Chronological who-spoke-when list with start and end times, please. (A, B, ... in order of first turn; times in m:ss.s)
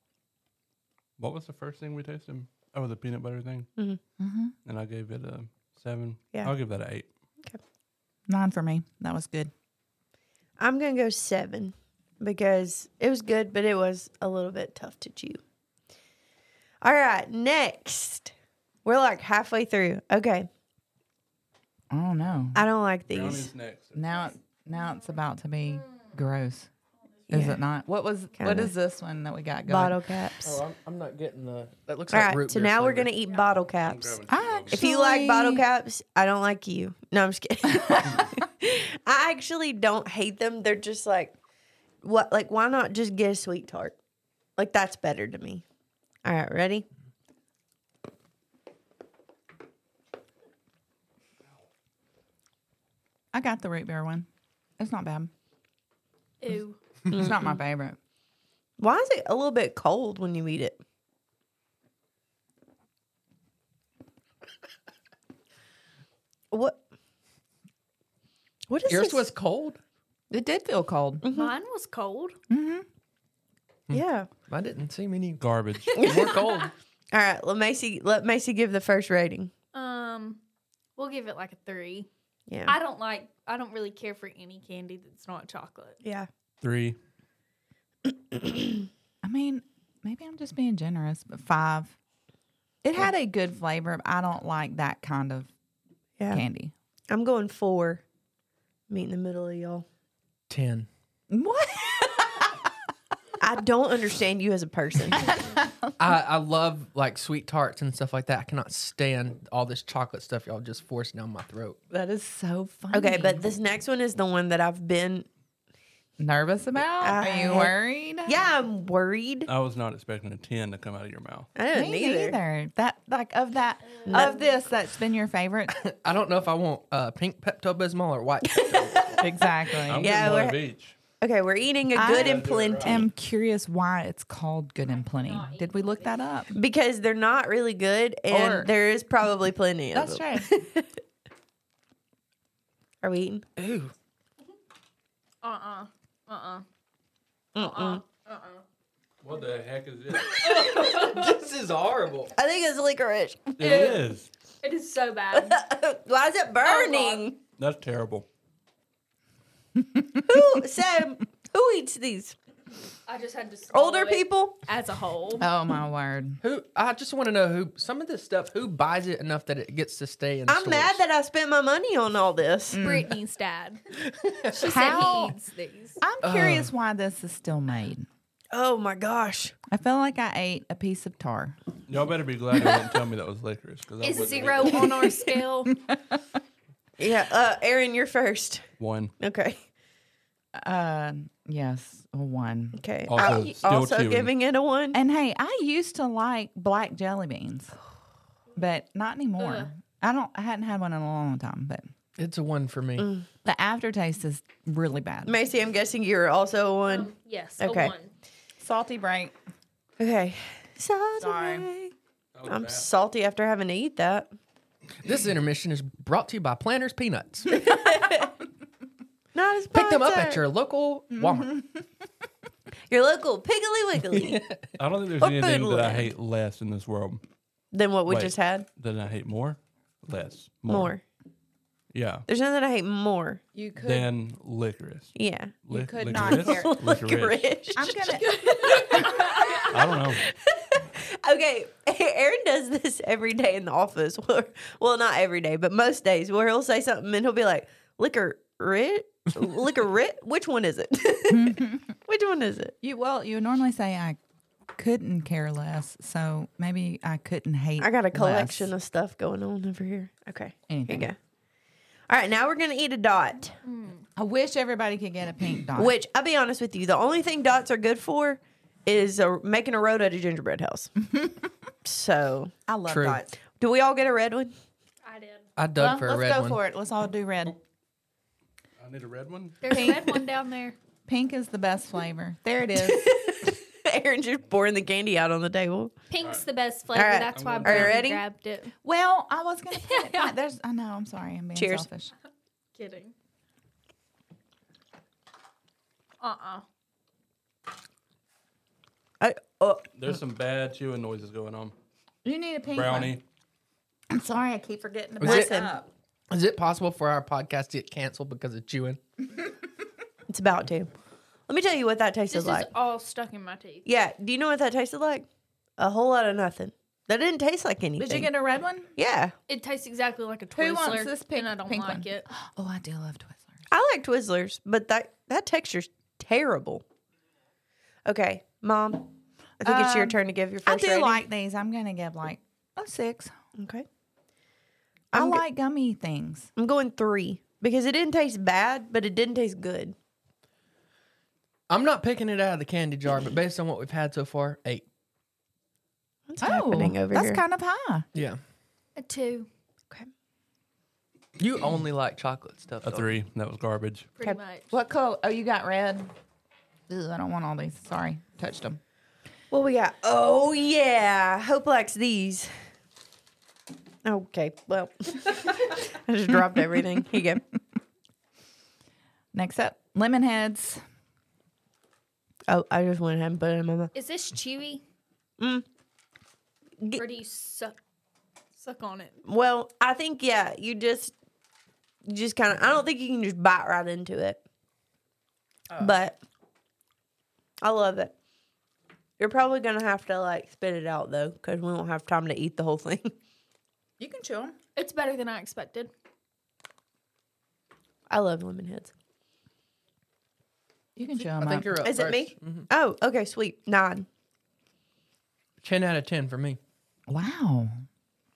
0:01.2-0:03.7 A
0:04.2-0:04.5 B
0:04.6-0:07.1 A
0:08.3-0:09.5 B
0:10.6-0:15.4 C
0:16.8-0:18.3 C
0:18.8-0:20.5 C
0:21.9-0:22.6 B
0:22.5-0:23.5 C
0:23.1-0:24.2 A
0:23.9-0:26.7 B
0:25.7-0:26.1 D
0:27.3-0:30.1 B
0:27.3-0:27.6 C
0:28.4-0:28.7 C
0:29.7-0:30.6 C
0:30.4-0:33.1 E
0:32.1-0:34.2 C
0:33.8-0:34.8 A
0:34.3-0:35.6 B
0:34.7-0:41.4 C
0:42.0-0:44.0 C
0:44.6-0:45.6 C
0:46.2-0:46.9 C
0:53.3-0:54.3 B
0:54.8-0:55.3 B
0:56.4-0:56.8 D
0:57.1-0:58.0 B
0:57.1-0:57.5 C
0:58.8-1:00.8 C
1:06.5-1:06.8 C
1:08.7-1:09.3 C
1:08.9-1:09.8 E
1:10.3-1:11.2 B
1:11.2-1:11.5 C
1:11.3-1:12.4 D
1:12.5-1:12.9 B
1:13.9-1:16.7 E
1:13.9-1:14.3 C
1:15.4-1:15.9 A
1:15.9-1:16.7 D
1:16.0-1:16.4 C
1:17.1-1:19.5 C
1:19.7-1:20.4 D
1:21.0-1:22.1 D
1:22.5-1:22.8 C
1:22.6-1:26.0 D
1:26.0-1:26.3 C
1:26.6-1:27.0 A
1:28.3-1:28.8 C
1:29.2-1:31.9 B
1:32.8-1:35.5 B
1:36.3-1:36.7 B
1:37.1-1:38.0 C
1:38.9-1:39.9 C
1:40.5-1:40.9 E
1:41.3-1:42.7 B
1:43.4-1:45.4 C
1:45.1-1:45.9 B
1:46.0-1:51.8 E
1:51.9-1:53.4 B
1:52.9-1:55.3 C
1:56.2-1:58.5 B
1:56.9-1:57.7 C
1:58.2-1:59.5 C
1:59.5-2:01.5 A
2:01.5-2:02.4 C
2:01.7-2:05.7 B
2:03.9-2:04.4 D
2:04.1-2:04.4 C
2:05.7-2:09.2 E
2:08.4-2:10.6 C
2:09.2-2:10.3 B
2:09.7-2:10.9 A
2:11.2-2:13.1 C
2:11.9-2:16.6 B
2:12.0-2:13.0 A
2:14.9-2:16.2 D
2:16.5-2:20.9 C
2:18.3-2:18.7 B
2:19.9-2:20.5 B
2:23.0-2:23.5 C
2:23.6-2:23.9 E
2:25.4-2:26.6 D
2:27.5-2:28.0 C
2:27.6-2:28.6 D
2:29.2-2:30.4 A
2:30.3-2:31.4 D
2:30.3-2:32.4 E
2:32.4-2:33.9 C
2:33.6-2:34.3 A
2:33.6-2:34.0 D
2:34.6-2:35.6 D
2:35.3-2:37.4 C
2:36.6-2:37.3 D
2:37.6-2:38.2 A
2:40.1-2:42.4 C
2:43.1-2:45.5 D
2:43.7-2:44.6 C
2:45.4-2:46.4 B
2:46.4-2:51.0 E
2:50.5-2:52.8 C
2:52.7-2:53.1 B
2:52.8-2:53.8 D
2:54.0-2:54.6 E
2:54.4-2:56.0 D
2:54.5-2:55.4 B
2:56.0-2:58.1 B
2:56.2-2:56.7 E
2:58.5-2:59.6 C
2:59.7-3:01.6 B
3:01.9-3:04.9 A
3:04.0-3:05.7 D
3:07.0-3:08.7 C
3:08.8-3:09.1 A
3:09.2-3:09.6 C
3:10.5-3:12.8 B
3:12.8-3:15.0 C
3:13.1-3:14.3 A
3:14.9-3:17.7 B
3:18.5-3:21.9 B
3:19.4-3:19.7 D
3:22.2-3:23.1 E
3:23.0-3:23.3 C
3:23.4-3:25.4 B
3:25.2-3:27.9 C
3:26.9-3:28.1 D
3:28.6-3:29.3 B
3:30.0-3:31.9 C
3:31.2-3:31.7 B
3:32.4-3:32.9 A
3:32.5-3:34.3 C
3:35.0-3:37.6 E
3:37.5-3:38.4 C
3:39.4-3:40.5 C
3:39.7-3:41.6 E
3:41.2-3:41.6 B
3:42.9-3:44.4 C
3:44.1-3:44.8 E
3:44.8-3:47.2 A
3:45.2-3:46.1 C
3:47.7-3:48.6 C
3:48.1-3:50.9 A
3:50.7-3:51.0 C
3:51.9-3:52.3 A
3:52.3-3:53.4 C
3:53.5-3:54.1 B
3:53.8-3:57.6 A
3:55.2-3:55.6 C
3:55.7-3:56.8 B
3:56.1-4:12.8 C
3:57.8-3:59.2 B
3:58.1-3:59.7 D
3:59.6-4:00.3 A
4:11.3-4:11.9 B
4:12.8-4:14.2 B
4:14.7-4:18.7 B
4:17.8-4:21.2 C
4:20.7-4:21.1 B
4:22.1-4:23.6 C
4:23.6-4:24.0 D
4:24.2-4:25.9 B
4:25.8-4:31.1 C
4:31.8-4:32.5 C
4:32.7-4:33.2 B
4:32.9-4:33.2 E
4:33.1-4:34.5 C
4:35.0-4:35.5 D
4:35.6-4:36.6 E
4:35.8-4:37.6 B
4:38.8-4:39.6 A
4:39.6-4:40.8 D
4:39.7-4:40.2 B
4:41.1-4:43.2 B
4:42.8-4:45.9 C
4:46.1-4:48.7 D
4:46.9-4:48.2 C
4:47.3-4:48.0 A
4:48.8-4:52.1 B
4:49.8-4:50.3 D
4:51.6-4:51.9 C
4:52.7-4:53.1 D
4:56.2-4:56.6 D
4:59.2-4:59.9 C
4:59.9-5:01.7 A
5:02.2-5:03.2 B
5:02.7-5:03.2 A
5:04.1-5:05.9 B
5:05.2-5:05.6 E
5:05.2-5:05.7 C
5:06.3-5:09.0 E
5:10.3-5:10.9 C
5:11.5-5:12.7 C
5:12.3-5:13.9 D
5:13.8-5:15.2 C
5:15.8-5:18.3 C
5:18.0-5:18.9 B
5:19.0-5:19.3 C
5:19.5-5:22.3 D
5:20.5-5:23.6 B
5:23.7-5:26.8 C
5:28.0-5:31.2 C
5:29.6-5:33.3 B
5:33.6-5:33.9 C
5:35.1-5:35.4 C
5:35.1-5:36.5 B
5:36.6-5:40.0 C
5:41.7-5:44.8 E
5:46.3-5:47.4 C
5:46.4-5:48.0 B
5:48.1-5:48.4 E
5:49.0-5:49.5 D
5:51.4-5:53.1 E
5:52.8-5:54.1 A
5:54.2-5:54.7 D
5:54.7-5:56.1 B
5:56.9-5:58.8 B
5:59.5-6:02.6 C
6:04.0-6:07.4 C
6:09.3-6:10.8 B
6:12.5-6:13.9 C
6:13.9-6:14.8 D
6:15.4-6:15.6 C
6:17.0-6:17.8 D
6:18.6-6:19.2 D
6:19.2-6:21.1 C
6:22.0-6:24.4 C
6:25.8-6:26.2 C
6:27.6-6:28.1 C
6:29.2-6:33.1 C
6:34.0-6:34.6 B
6:34.8-6:35.9 D
6:38.1-6:38.9 C
6:41.0-6:41.7 B
6:41.2-6:42.7 E
6:41.8-6:44.1 C
6:45.6-6:46.6 E
6:47.1-6:47.8 B